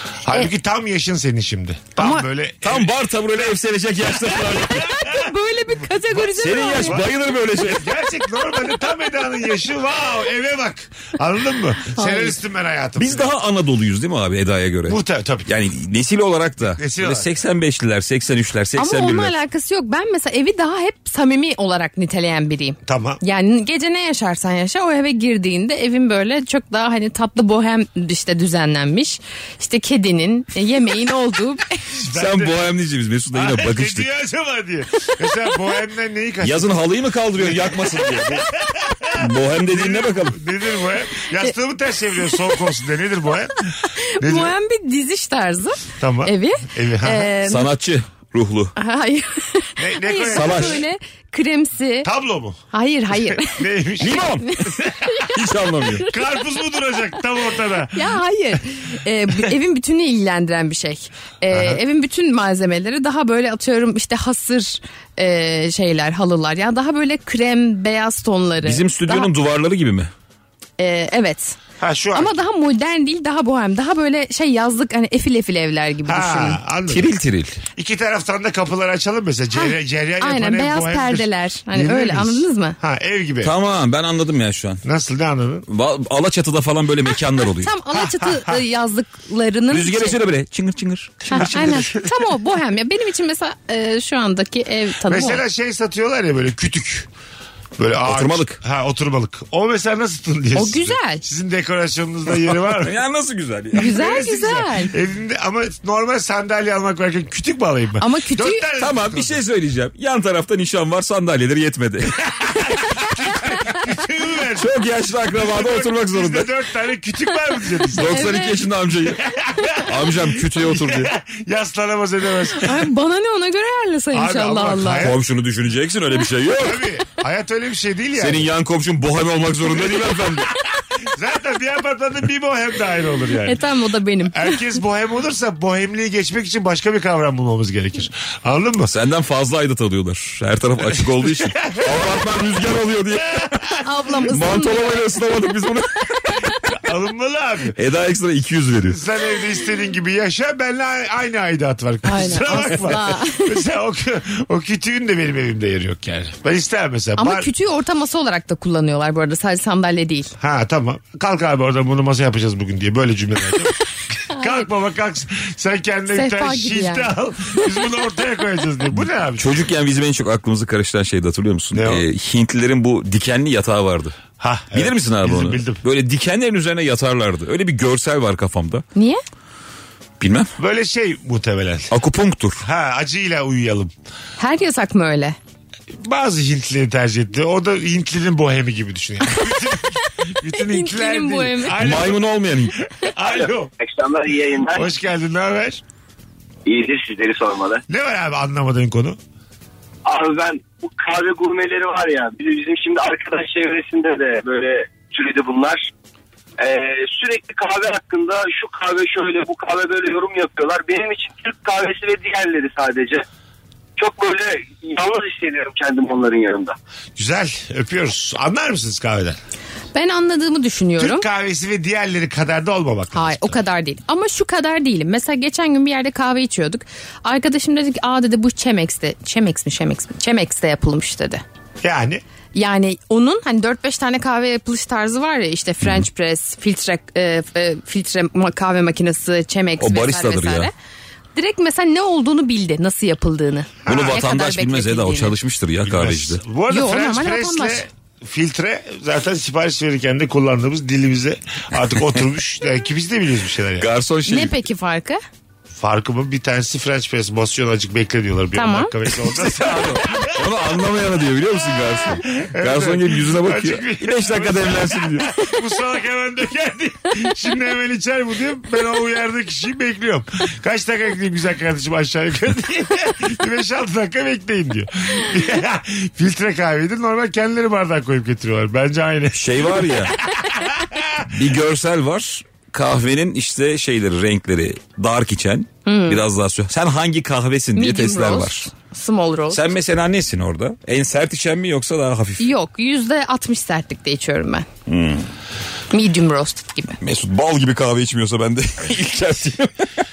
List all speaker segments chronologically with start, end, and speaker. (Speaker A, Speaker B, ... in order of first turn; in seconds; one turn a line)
Speaker A: 0.2-2.9
Speaker B: 2.0-2.2
Speaker C: 2.6-4.9
Speaker A: 4.0-5.3
Speaker B: 4.7-7.0
Speaker C: 6.2-7.9
Speaker A: 6.7-13.3
Speaker B: 11.9-12.4
Speaker C: 13.0-19.3
Speaker A: 14.9-15.5
Speaker A: 16.8-17.3
Speaker B: 18.8-31.8
Speaker A: 22.9-23.2
Speaker A: 31.9-32.7
Speaker C: 32.1-34.1
Speaker A: 33.3-36.8
Speaker C: 36.4-38.5
Speaker A: 37.3-44.5
Speaker C: 39.1-40.4
Speaker B: 43.9-47.7
Speaker A: 46.0-47.3
Speaker C: 47.4-48.7
Speaker B: 48.8-52.1
Speaker A: 49.8-50.8
Speaker C: 50.3-50.8
Speaker A: 52.0-52.6
Speaker B: 52.7-54.5
Speaker A: 53.3-55.1
Speaker C: 54.0-56.1
Speaker B: 55.0-55.3
Speaker A: 56.0-58.2
Speaker B: 57.9-69.3
Speaker A: 61.5-61.8
Speaker C: 68.6-70.1
Speaker B: 70.8-71.6
Speaker A: 71.8-72.3
Speaker B: 72.1-76.6
Speaker A: 76.0-77.1
Speaker C: 76.9-77.6
Speaker A: 77.7-83.5
Speaker B: 79.5-82.8
Speaker C: 83.4-84.8
Speaker A: 84.8-85.6
Speaker C: 85.7-87.7
Speaker B: 87.6-90.2
Speaker A: 87.9-88.6
Speaker C: 89.7-91.9
Speaker B: 91.3-95.4
Speaker A: 91.3-92.2
Speaker A: 95.0-97.1
Speaker A: 97.8-103.0
Speaker C: 98.0-98.6
Speaker B: 100.5-101.2
Speaker C: 102.7-104.0
Speaker B: 103.7-104.9
Speaker A: 103.7-109.4
Speaker B: 108.0-108.6
Speaker C: 108.8-112.3
Speaker A: 112.4-114.7
Speaker C: 114.5-116.5
Speaker A: 115.3-118.3
Speaker C: 117.9-119.2
Speaker B: 118.0-118.6
Speaker A: 119.1-122.9
Speaker C: 119.8-121.1
Speaker B: 122.5-125.1
Speaker A: 124.1-125.2
Speaker C: 125.0-126.9
Speaker A: 126.5-128.5
Speaker C: 128.2-130.5
Speaker A: 129.7-133.6
Speaker B: 133.4-134.6
Speaker A: 134.3-138.9
Speaker C: 138.8-143.7
Speaker A: 141.0-142.3
Speaker A: 143.3-143.6
Speaker B: 143.8-145.0
Speaker C: 144.3-146.5
Speaker A: 146.7-147.8
Speaker C: 147.8-149.0
Speaker A: 148.8-157.5
Speaker B: 152.1-153.6
Speaker B: 157.2-160.3
Speaker A: 160.4-169.6
Speaker B: 164.3-164.7
Speaker B: 166.1-167.6
Speaker C: 169.4-174.2
Speaker A: 171.7-172.0
Speaker A: 174.4-175.8
Speaker C: 174.7-178.8
Speaker B: 178.9-179.2
Speaker C: 180.2-180.5
Speaker A: 180.6-181.9
Speaker C: 181.9-182.6
Speaker A: 182.6-183.9
Speaker B: 184.4-185.3
Speaker A: 186.0-192.3
Speaker B: 190.5-191.8
Speaker C: 191.8-192.8
Speaker A: 193.0-193.7
Speaker D: 193.2-194.9
Speaker A: 194.7-195.8
Speaker D: 196.7-197.8
Speaker A: 197.9-199.2
Speaker D: 200.0-205.9
Speaker D: 206.6-213.2
Speaker D: 214.0-216.8
Speaker A: 217.2-219.4
Speaker B: 219.9-221.2
Speaker A: 221.0-223.6
Speaker B: 223.1-231.4
Speaker A: 231.8-232.2
Speaker B: 232.5-240.7
Speaker C: 239.8-240.7
Speaker B: 241.3-245.3
Speaker A: 243.8-244.2
Speaker C: 243.9-246.4
Speaker A: 245.8-253.9
Speaker B: 246.7-247.8
Speaker C: 253.8-254.6
Speaker B: 254.3-255.2
Speaker A: 255.7-260.6
Speaker B: 258.5-258.9
Speaker C: 259.1-265.3
Speaker A: 262.1-281.2
Speaker C: 279.3-280.2
Speaker C: 281.2-288.7
Speaker B: 285.9-286.2
Speaker B: 287.7-289.7
Speaker C: 289.5-292.5
Speaker B: 292.4-294.7
Speaker C: 294.9-295.3
Speaker B: 295.9-297.0
Speaker C: 297.0-299.9